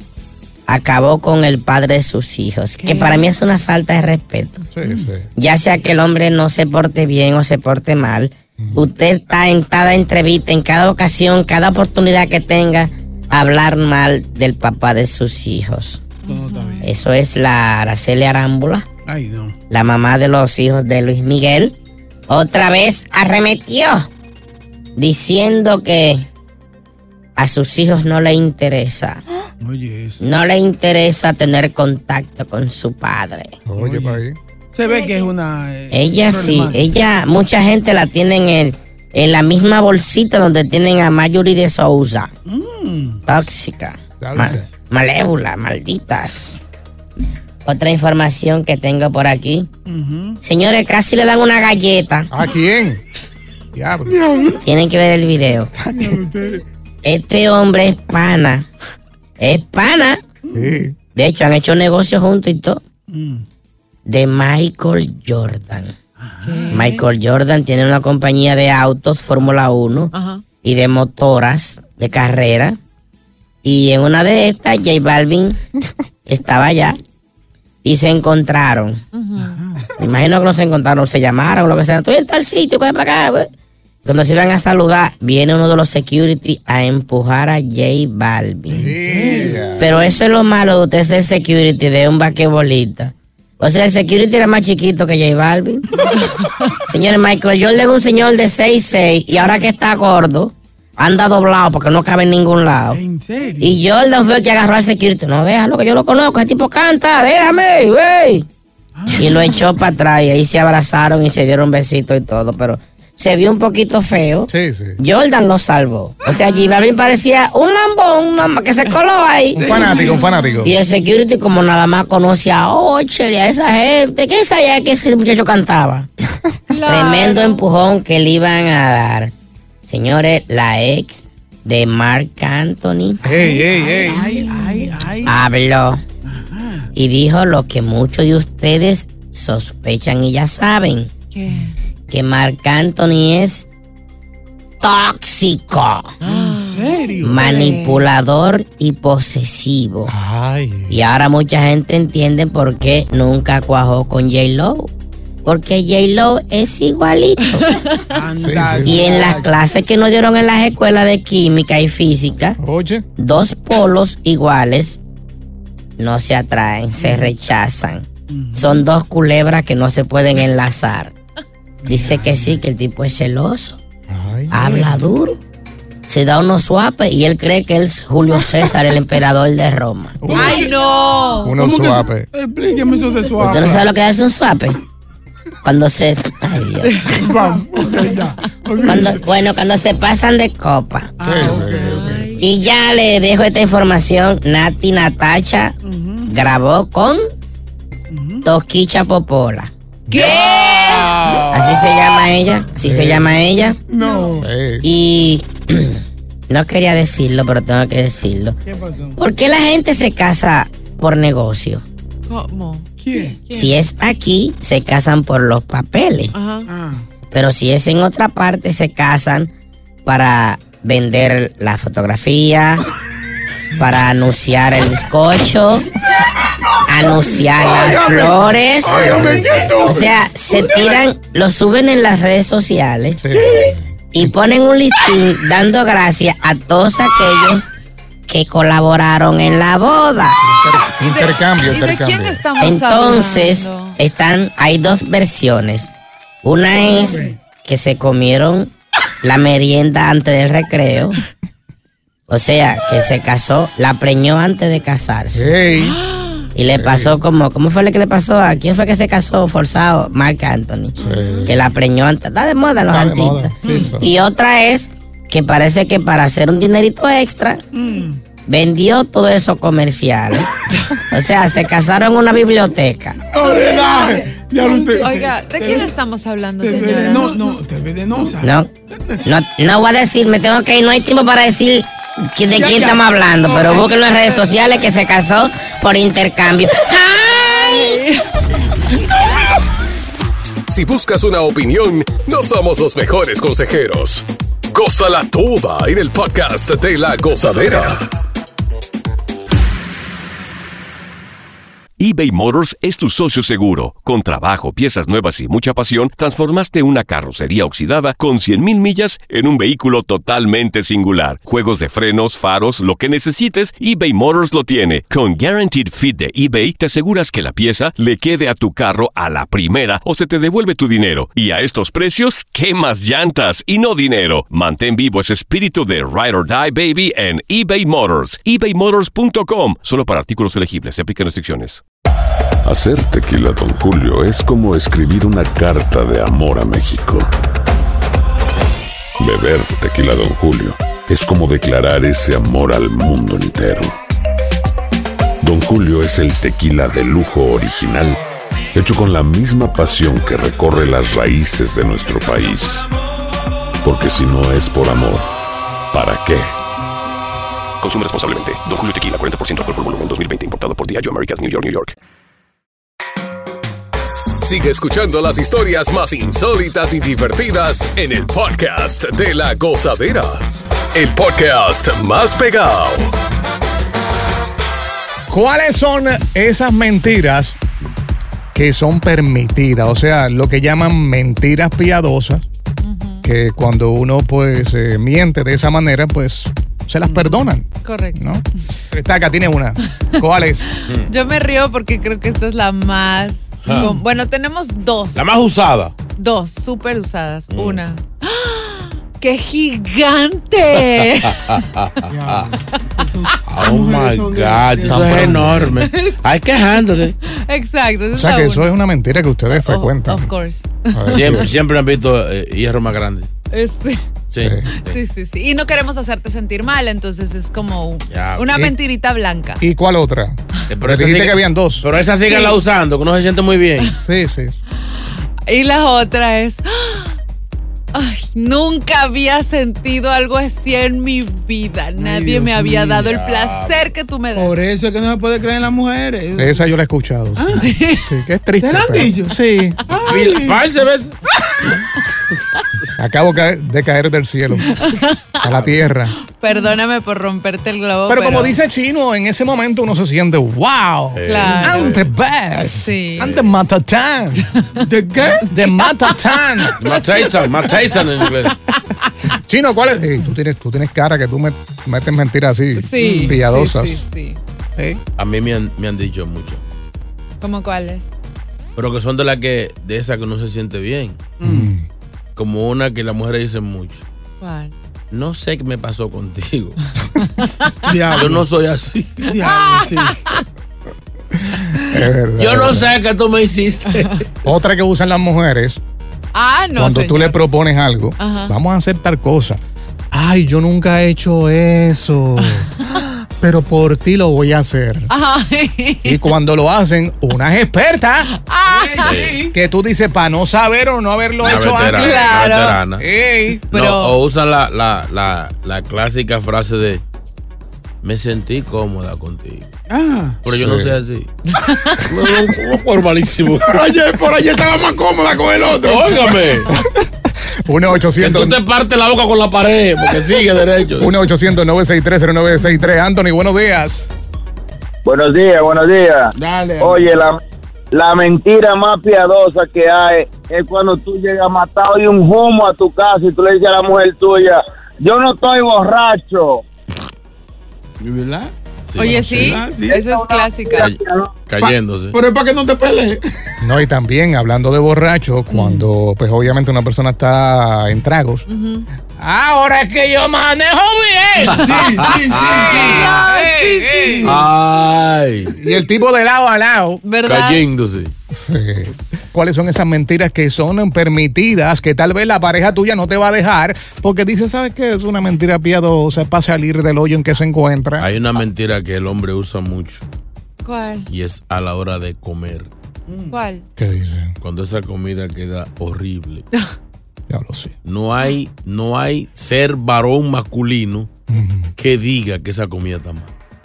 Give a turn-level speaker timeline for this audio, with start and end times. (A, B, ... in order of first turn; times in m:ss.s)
0:00.7-0:04.6 A
0:02.9-0:03.2 B
0:04.7-0:05.3 C
0:05.4-0:16.0 A
0:08.6-0:08.9 C
0:16.2-0:16.9 B
0:16.3-0:16.9 D
0:16.8-0:18.8 A
0:19.1-0:19.5 D
0:19.7-0:21.7 A
0:22.3-0:24.1 A
0:25.0-0:26.2 A
0:27.4-0:29.2 A
0:29.6-0:30.2 D
0:30.2-0:33.6 A
0:33.7-0:34.4 C
0:33.8-0:34.2 D
0:34.7-0:36.8 D
0:34.9-0:35.3 B
0:35.9-0:42.3 A
0:42.4-0:43.2 D
0:43.2-0:46.6 A
0:44.2-0:44.7 C
0:47.6-0:49.7 A
0:49.8-0:50.4 D
0:50.4-0:52.3 A
0:52.3-0:53.0 C
0:53.7-0:54.2 C
0:54.1-0:54.6 D
0:54.6-0:55.7 A
0:55.8-0:56.2 C
0:55.9-0:56.6 D
0:57.0-0:58.7 A
0:59.4-1:00.2 A
1:00.5-1:00.8 D
1:00.5-1:00.9 C
1:01.1-1:02.8 A
1:03.1-1:03.4 D
1:04.1-1:05.9 A
1:06.2-1:06.7 D
1:06.4-1:07.0 B
1:06.7-1:10.1 A
1:10.1-1:10.4 B
1:10.6-1:12.8 A
1:13.6-1:15.6 A
1:16.2-1:17.0 A
1:17.8-1:19.0 A
1:19.1-1:19.6 B
1:19.4-1:19.9 D
1:20.0-1:23.5 A
1:24.0-1:28.9 A
1:28.7-1:29.8 D
1:28.7-1:30.0 C
1:29.8-1:35.8 A
1:36.9-1:43.0 A
1:42.9-1:43.8 D
1:43.6-1:48.4 A
1:49.0-1:49.5 D
1:49.1-1:59.7 A
1:54.5-1:55.0 C
1:56.3-1:56.8 B
1:59.6-2:00.7 C
1:59.6-2:00.3 D
1:59.8-2:00.7 B
2:00.6-2:06.1 A
2:06.7-2:07.6 B
2:06.8-2:09.3 A
2:09.9-2:13.2 A
2:13.2-2:14.3 C
2:13.4-2:15.1 B
2:14.0-2:15.4 D
2:15.2-2:16.0 A
2:16.2-2:16.9 D
2:17.0-2:21.1 A
2:21.3-2:21.7 B
2:22.1-2:23.7 A
2:24.8-2:26.1 A
2:26.2-2:28.1 B
2:26.3-2:27.4 D
2:27.2-2:30.1 A
2:30.1-2:31.0 C
2:30.9-2:34.9 A
2:35.4-2:37.6 A
2:37.5-2:38.2 B
2:38.1-2:39.6 D
2:38.4-2:39.1 C
2:38.9-2:42.6 A
2:42.6-2:43.0 C
2:43.2-2:45.0 A
2:46.0-2:51.1 A
2:47.0-2:47.3 D
2:48.3-2:48.8 D
2:51.8-2:52.6 D
2:51.9-2:53.8 A
2:54.1-2:54.9 C
2:54.5-2:55.4 A
2:56.1-3:00.2 A
3:00.2-3:00.7 C
3:00.3-3:01.6 B
3:00.3-3:00.7 D
3:01.4-3:02.2 C
3:01.6-3:03.9 D
3:03.4-3:04.8 A
3:03.5-3:03.8 C
3:05.6-3:06.9 A
3:06.8-3:08.5 B
3:07.1-3:09.2 D
3:08.8-3:11.1 A
3:11.2-3:12.4 D
3:11.2-3:12.3 C
3:11.4-3:12.5 B
3:12.4-3:15.7 A
3:15.8-3:16.3 D
3:16.3-3:17.2 A
3:18.1-3:18.4 D
3:18.4-3:19.7 A
3:20.1-3:21.4 C
3:20.1-3:21.3 B
3:21.5-3:23.8 A
3:22.8-3:23.3 C
3:23.9-3:24.5 D
3:24.0-3:24.3 B
3:24.4-3:24.9 C
3:24.8-3:28.6 A
3:28.6-3:29.2 D
3:29.2-3:31.8 A
3:32.3-3:32.9 B
3:33.0-3:33.4 D
3:33.5-3:33.8 B
3:33.5-3:36.3 A
3:36.3-3:36.7 B
3:36.7-3:37.0 D
3:37.3-3:39.5 A
3:40.0-3:42.8 A
3:43.8-3:45.9 A
3:46.2-3:51.0 D
3:46.9-3:53.2 A
3:48.9-3:49.7 C
3:53.2-3:54.3 C
3:53.4-3:53.7 D
3:54.1-3:57.7 A
3:58.3-4:00.4 A
4:00.4-4:02.4 C
4:01.0-4:04.0 B
4:02.6-4:05.9 A
4:06.4-4:11.2 A
4:06.8-4:07.3 D
4:12.3-4:15.5 A
4:15.3-4:16.0 C
4:15.8-4:16.5 B
4:16.5-4:27.6 A
4:16.7-4:17.2 C
4:21.0-4:21.6 C
4:21.0-4:21.5 B
4:22.9-4:24.0 C
4:27.7-4:28.2 D
4:28.5-4:30.6 A
4:31.1-4:33.2 A
4:33.3-4:35.9 D
4:33.7-4:34.0 B
4:34.6-4:37.6 B
4:36.6-4:39.2 D
4:38.4-4:38.7 A
4:39.2-4:48.0 A
4:42.5-4:43.8 D
4:47.4-4:48.3 B
4:50.7-4:58.0 E
5:02.0-5:31.8 F
5:32.6-5:37.3 G
5:39.2-5:44.0 G
5:45.4-5:48.2 G
5:48.7-5:52.9 G
5:53.8-5:55.3 G
5:55.9-5:56.5 G
5:57.8-6:01.9 F
6:04.4-6:13.1 E
6:15.3-6:17.6 C
6:18.5-6:22.5 C
6:22.8-6:23.2 B
6:23.2-6:30.6 C
6:27.8-6:28.2 B
6:31.1-6:35.3 B
6:33.6-6:34.0 H
6:35.1-6:35.9 H
6:36.2-6:41.6 B
6:37.5-6:37.8 H
6:41.4-6:42.5 H
6:42.1-6:45.5 D
6:43.5-6:47.2 H
6:44.8-6:45.8 C
6:45.8-6:46.2 B
6:47.2-6:48.7 B
6:48.1-6:50.3 C
6:49.5-6:51.4 B
6:50.9-6:51.5 C
6:51.1-6:53.3 H
6:53.5-6:54.0 B
6:54.3-6:55.0 H
6:54.4-6:54.6 C
6:54.8-6:59.6 B
6:58.1-6:58.6 H
6:59.6-7:01.8 C
7:00.7-7:03.9 H
7:02.3-7:02.6 B
7:04.0-7:04.6 C
7:05.5-7:07.1 B
7:07.9-7:14.6 B
7:12.0-7:13.1 D
7:13.0-7:13.9 H
7:14.3-7:16.7 D
7:16.4-7:19.8 C
7:17.4-7:17.6 D
7:17.6-7:18.0 B
7:18.6-7:19.4 D
7:19.9-7:20.6 D
7:20.0-7:21.1 H
7:23.0-7:24.8 C
7:24.9-7:25.1 B
7:25.4-7:26.1 C
7:26.2-7:28.6 B
7:28.1-7:34.5 C
7:31.1-7:32.1 H
7:31.2-7:32.0 B
7:32.7-7:33.3 B
7:33.2-7:33.5 H
7:34.8-7:35.4 D
7:35.5-7:36.8 C
7:36.8-7:38.6 H
7:39.5-7:44.0 C
7:42.8-7:44.4 B
7:45.2-7:46.6 H
7:47.4-7:48.0 B
7:48.8-7:51.2 H
7:51.4-7:51.7 D
7:51.4-7:51.8 C
7:52.4-7:54.0 H
7:54.4-7:54.7 B
7:55.1-7:56.8 H
7:57.4-7:57.9 B
7:57.9-7:58.4 D
7:58.2-7:59.3 H
7:59.2-8:00.2 D
7:59.3-8:00.4 B
8:01.8-8:02.9 C
8:02.4-8:04.2 H
8:04.4-8:05.8 C
8:06.3-8:07.4 B
8:06.8-8:09.6 C
8:08.2-8:08.5 B
8:10.1-8:12.7 C
8:13.4-8:15.1 C
8:15.1-8:16.2 B
8:16.0-8:18.3 C
8:18.3-8:19.2 B
8:18.7-8:19.5 D
8:19.0-8:19.4 H
8:19.5-8:22.4 C
8:21.4-8:23.0 H
8:21.8-8:22.8 B
8:23.0-8:23.6 C
8:23.7-8:27.0 H
8:23.7-8:24.2 B
8:28.0-8:29.7 H
8:29.9-8:30.4 D
8:30.4-8:31.3 H
8:30.5-8:31.0 C
8:31.6-8:32.0 B
8:32.0-8:33.8 H
8:33.6-8:36.6 D
8:35.8-8:36.7 H
8:37.6-8:38.6 C
8:38.2-8:41.1 H
8:41.0-8:44.1 C
8:45.0-8:47.4 I
8:46.4-8:47.1 D
8:47.9-8:56.6 I
8:58.0-9:00.1 D
8:58.9-8:59.6 H
8:59.0-9:00.9 B
9:00.0-9:01.3 I
9:00.7-9:02.2 H
9:01.6-9:03.2 D
9:03.6-9:08.4 C
9:08.5-9:08.8 B
9:09.2-9:11.6 C
9:11.5-9:13.1 D
9:12.6-9:14.2 B
9:12.7-9:14.3 C
9:14.2-9:15.5 H
9:15.5-9:17.0 C
9:17.0-9:17.6 B
9:17.2-9:18.1 H
9:18.3-9:28.1 C
9:28.0-9:30.0 H
9:30.6-9:31.1 B
9:31.1-9:32.7 H
9:33.1-9:33.4 D
9:33.3-9:33.6 B
9:33.8-9:34.3 C
9:34.4-9:36.4 H
9:37.3-9:37.7 C
9:37.8-9:41.1 H
9:41.3-9:41.7 C
9:41.8-9:43.3 H